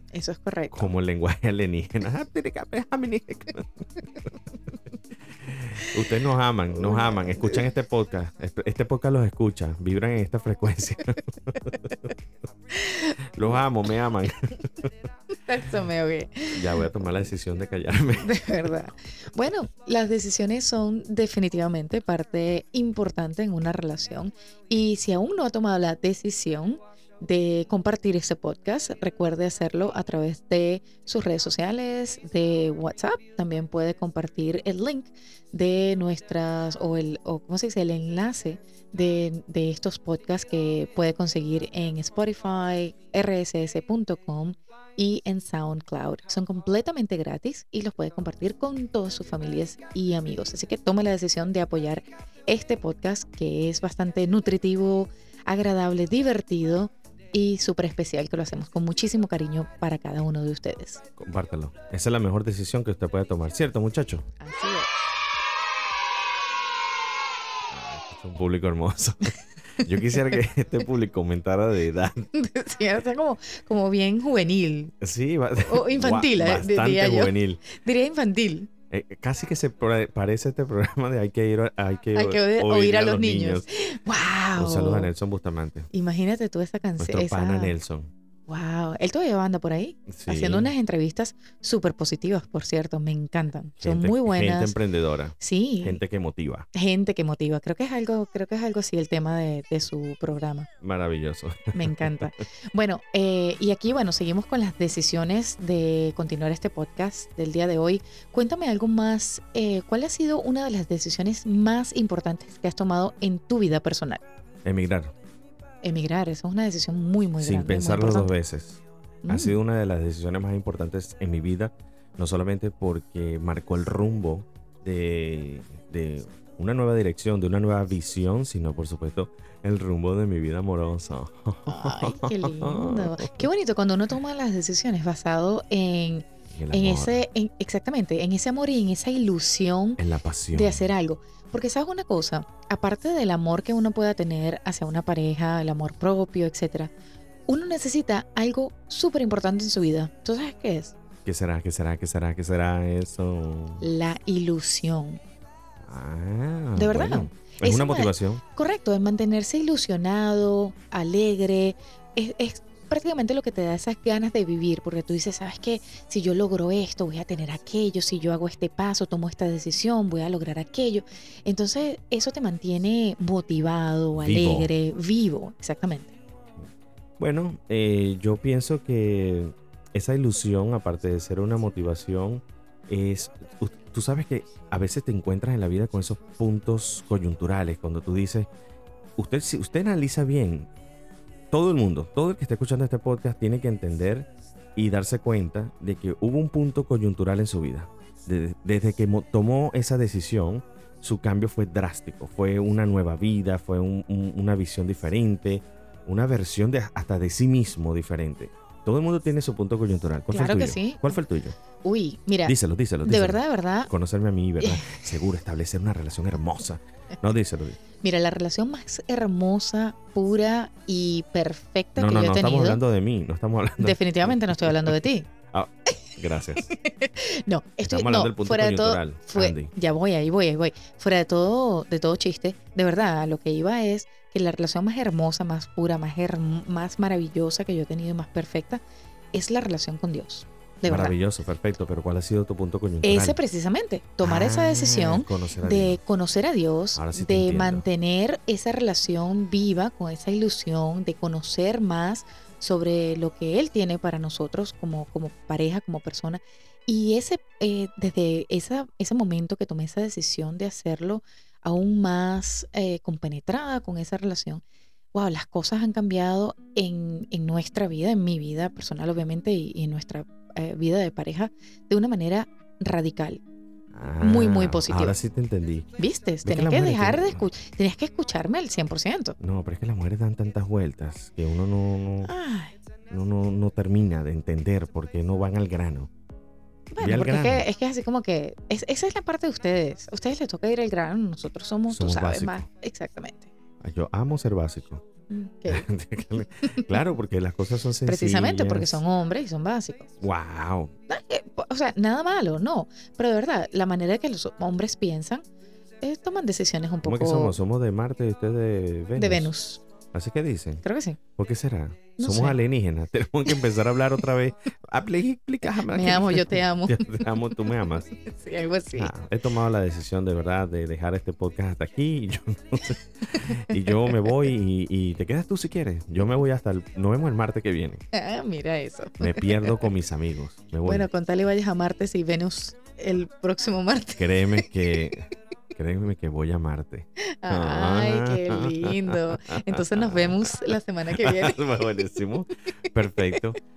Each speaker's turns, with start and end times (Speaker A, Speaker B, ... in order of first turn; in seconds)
Speaker A: 0.1-0.9, 6.8-7.6, 12.7-13.2, 15.4-16.6, 18.2-61.0, 64.4-65.1, 72.3-74.9, 75.6-78.7, 82.1-85.1, 85.9-87.7, 88.5-94.8, 95.4-96.0, 96.7-100.7, 101.7-114.2, 115.8-118.3, 119.2-119.6, 131.7-140.0, 140.5-146.9, 147.5-150.9, 153.8-155.2, 156.8-176.1, 210.3-211.2, 211.8-213.9, 214.6-215.0, 218.0-222.8, 223.8-225.3, 226.5-241.2, 243.0-264.6, 265.1-273.4, 274.2-275.2, 276.0-279.4, 282.2-282.7, 286.9-293.5, 295.3-295.9, 296.4-296.9, 298.0-300.1, 301.1-305.4, 306.0-307.6, 309.2-309.8, 310.8-311.2, 312.2-312.6, 315.7-319.1, 328.1-329.8, 330.8-334.3, 337.4-342.0
Speaker B: 0.7-3.8, 5.4-11.9, 13.3-14.9, 16.5-18.5, 61.2-64.3, 67.7-72.3, 75.0-77.6, 78.9-83.7, 84.5-85.9, 87.0-88.1, 90.1-90.7, 93.8-96.7, 100.8-102.3, 114.6-115.1, 117.4-133.5, 136.5-137.2, 140.0-140.9, 151.2-153.9, 155.8-158.4, 174.2-174.7, 177.2-188.5, 189.2-190.7, 191.5-211.5, 212.4-217.8, 221.9-225.0, 225.5-226.7, 227.8-229.7, 240.8-243.4, 244.2-246.0, 246.9-247.8, 273.9-275.9, 276.4-277.5, 279.4-282.3, 283.1-286.1, 287.0-287.6, 291.9-292.6, 293.8-295.0, 295.7-299.0, 300.2-300.9, 307.0-309.5, 310.1-310.8, 311.4-318.1, 318.9-328.0, 329.2-331.1, 334.2-340.6, 341.1-343.6